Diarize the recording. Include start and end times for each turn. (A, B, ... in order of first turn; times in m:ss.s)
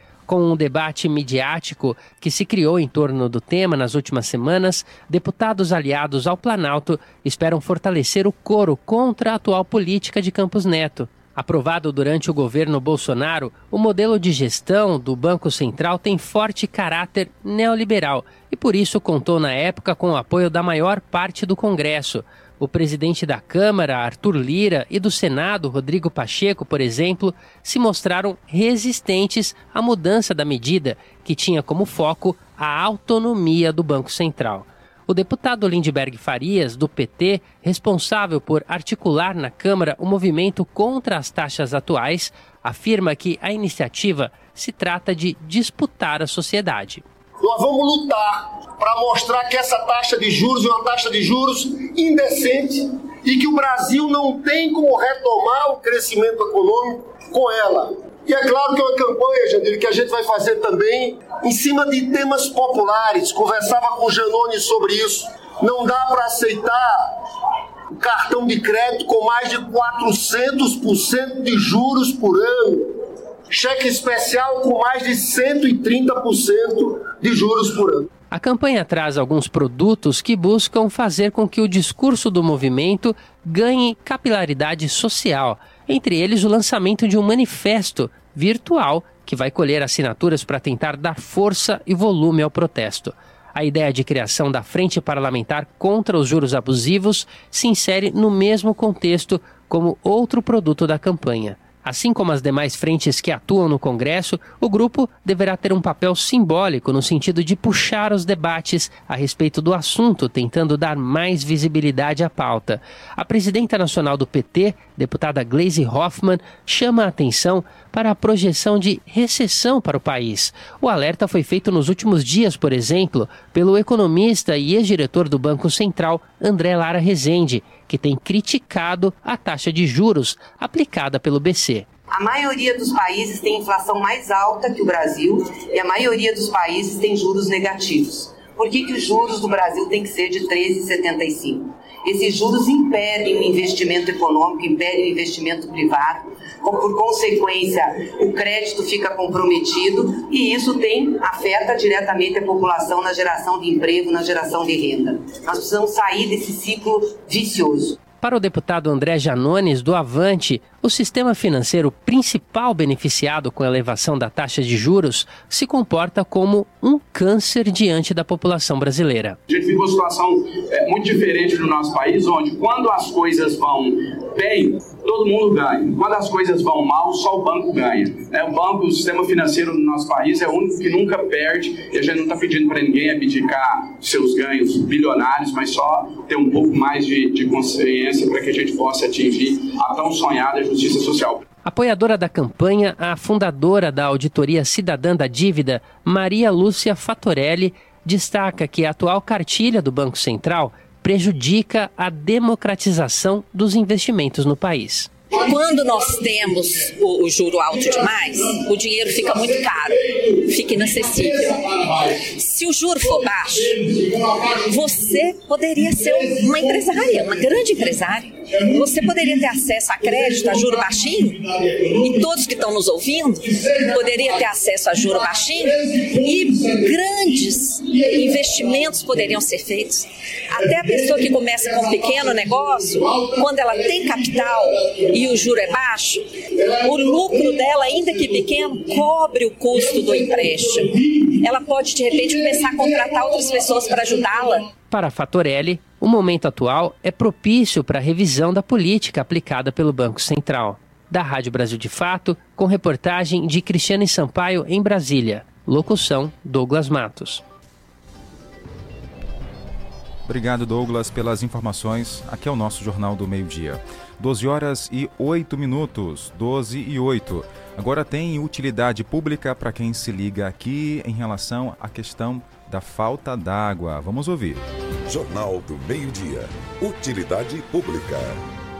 0:00.3-0:47.0 A
0:47.4-1:07.1 B
1:07.9-1:12.9 B
1:13.5-1:18.1 B
1:18.3-2:11.8 A
2:12.1-2:38.0 C
2:38.2-2:49.4 A
2:49.5-3:11.4 D
3:11.6-3:25.1 A
3:25.4-4:04.7 E
4:04.9-4:17.4 A
4:20.3-4:34.6 F
4:35.1-4:38.4 G